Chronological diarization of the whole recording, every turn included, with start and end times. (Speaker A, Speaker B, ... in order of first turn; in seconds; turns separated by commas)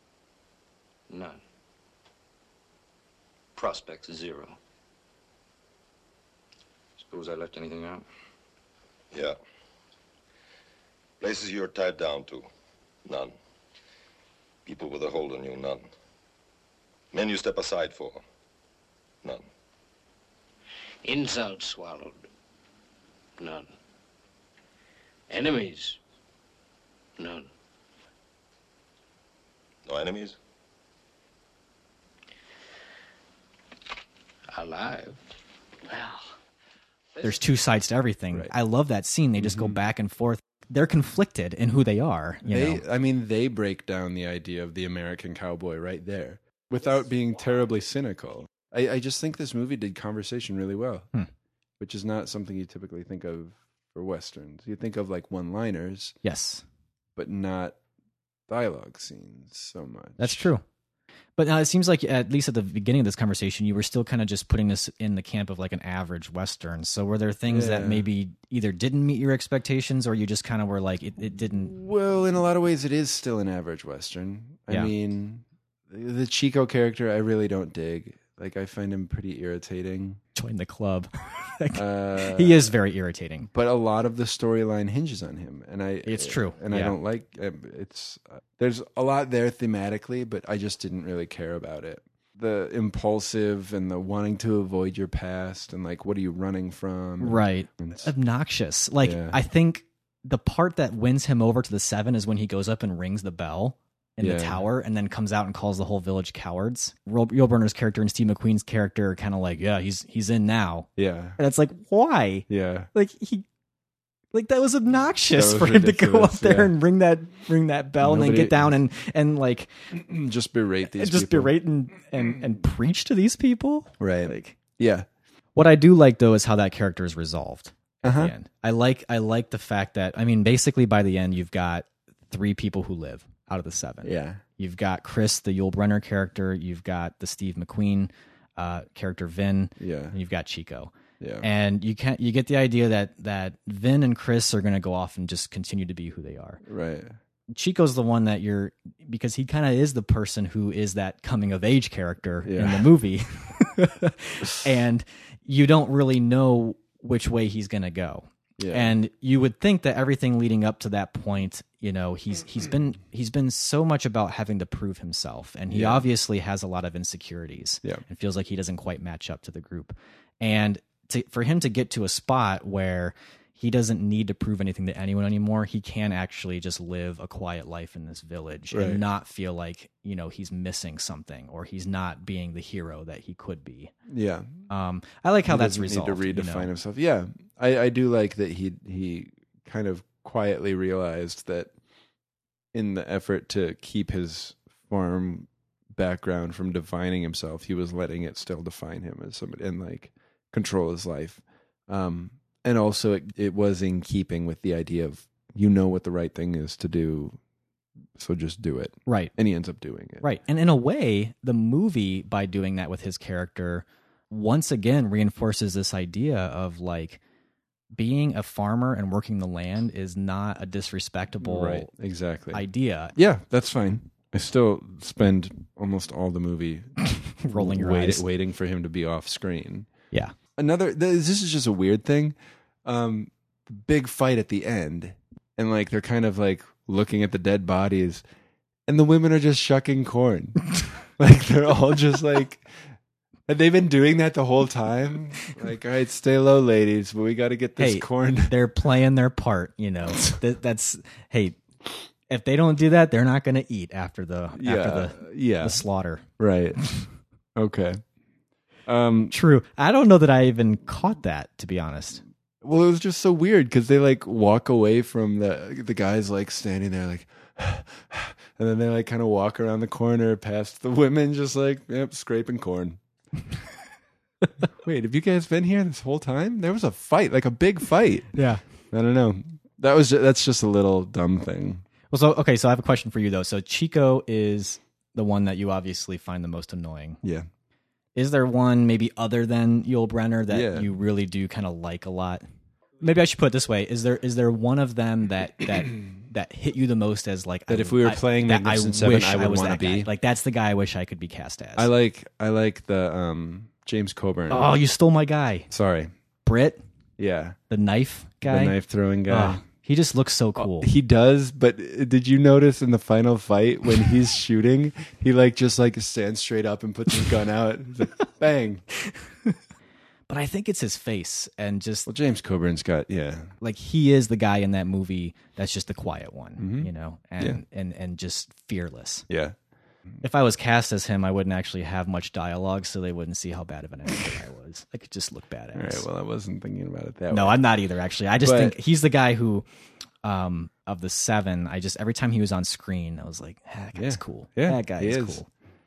Speaker A: 1.1-1.4, Speaker A: 3.5-4.6, Speaker A: 7.0-8.1, Speaker B: 9.1-9.4, Speaker B: 11.2-12.5, Speaker B: 13.1-13.4, Speaker B: 14.7-15.9, Speaker B: 17.1-18.2, Speaker C: 21.0-22.2, Speaker C: 23.4-23.7, Speaker C: 25.3-26.0, Speaker C: 27.2-27.5, Speaker B: 29.9-30.4, Speaker C: 34.5-35.2, Speaker C: 35.9-36.3, Speaker D: 37.2-42.8, Speaker E: 39.4-39.8, Speaker E: 42.5-51.1, Speaker E: 51.8-56.2, Speaker D: 56.2-56.6, Speaker E: 57.2-57.8, Speaker E: 58.5-60.5, Speaker D: 60.2-60.6, Speaker D: 61.4-71.7, Speaker E: 67.5-68.1, Speaker E: 71.4-80.2, Speaker D: 80.3-83.5, Speaker E: 81.7-82.7, Speaker E: 83.5-98.1, Speaker D: 86.1-87.0, Speaker D: 97.2-113.5, Speaker E: 99.0-99.4, Speaker E: 104.2-104.6, Speaker E: 111.0-111.4, Speaker E: 112.5-112.9, Speaker D: 114.3-119.7, Speaker E: 115.3-116.7, Speaker E: 118.0-118.7, Speaker E: 119.9-121.5, Speaker D: 120.9-124.6, Speaker E: 124.0-125.1, Speaker D: 125.5-146.6, Speaker E: 128.0-128.3, Speaker E: 134.0-134.4, Speaker E: 139.8-140.2, Speaker E: 141.2-141.5, Speaker E: 146.6-147.2, Speaker D: 147.5-183.9, Speaker E: 152.4-152.9, Speaker E: 158.6-158.9, Speaker E: 165.7-166.1, Speaker E: 178.7-179.0, Speaker E: 184.1-184.5, Speaker D: 184.7-186.7, Speaker E: 185.5-191.7, Speaker E: 192.7-207.4, Speaker E: 208.2-210.2, Speaker D: 209.1-209.3, Speaker D: 210.2-217.2, Speaker D: 217.9-221.9, Speaker E: 221.4-229.9, Speaker D: 222.5-223.1, Speaker D: 227.4-228.2, Speaker E: 230.6-238.2, Speaker E: 238.9-242.7, Speaker E: 243.5-248.6, Speaker D: 247.8-251.6, Speaker E: 250.1-250.3, Speaker D: 252.3-256.3, Speaker E: 254.6-255.8, Speaker E: 256.4-256.8, Speaker E: 257.6-258.0, Speaker E: 258.9-259.3, Speaker D: 259.3-262.2, Speaker E: 262.6-273.0, Speaker E: 274.8-278.4, Speaker D: 278.4-278.6, Speaker E: 278.9-281.9, Speaker D: 282.1-287.2, Speaker E: 287.2-287.5, Speaker D: 288.2-292.4, Speaker E: 290.5-290.9, Speaker D: 293.0-301.9, Speaker E: 297.7-300.1, Speaker E: 301.8-304.7, Speaker D: 304.5-305.7, Speaker E: 305.7-306.1, Speaker D: 306.4-306.8, Speaker E: 307.2-307.6, Speaker D: 307.7-308.8, Speaker E: 308.4-309.6, Speaker D: 309.3-310.9, Speaker E: 310.6-318.9, Speaker D: 320.3-322.1, Speaker E: 322.1-323.5, Speaker D: 323.6-329.3, Speaker E: 326.6-327.6, Speaker E: 329.3-329.6, Speaker D: 330.2-336.1, Speaker E: 335.7-337.6, Speaker D: 337.3-339.6, Speaker E: 338.4-338.8, Speaker D: 340.2-345.5, Speaker E: 344.0-345.4